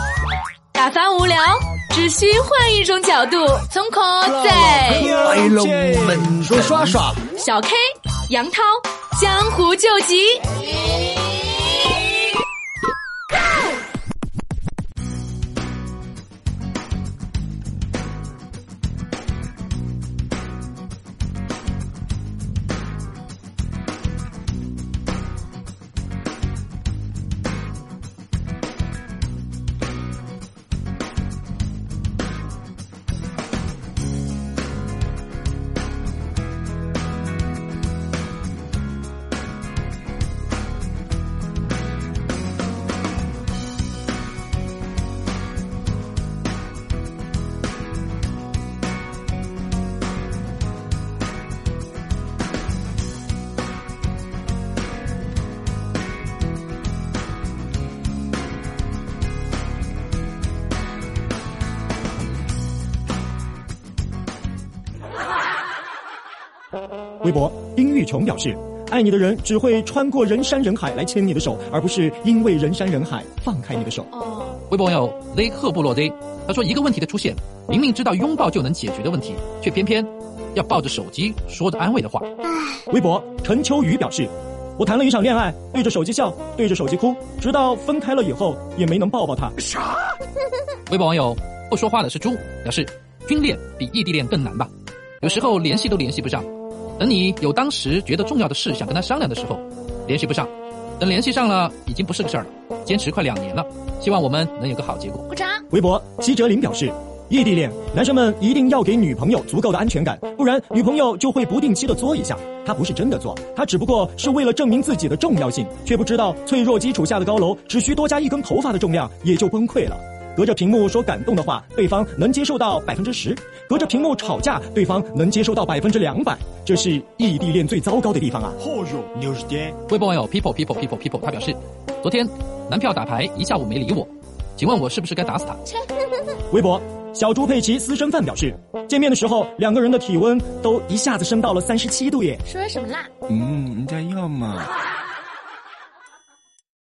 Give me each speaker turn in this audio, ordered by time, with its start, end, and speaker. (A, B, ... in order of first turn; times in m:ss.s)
0:00.7-0:05.1 A
0:04.2-0:07.2 B
0:05.1-0:07.0 C
0:07.3-0:10.5 A
1:07.2-1:14.2 B
1:14.2-1:14.5 A
1:14.5-1:22.3 D
1:22.9-1:29.6 B
1:30.9-1:34.7 D
1:35.2-1:45.3 D
1:45.3-1:45.6 A
1:45.7-2:08.6 B
2:08.7-2:09.7 C
2:09.9-2:15.7 D
2:15.7-2:16.1 A
2:16.5-2:22.5 B
2:22.5-2:23.1 A
2:23.3-2:24.7 B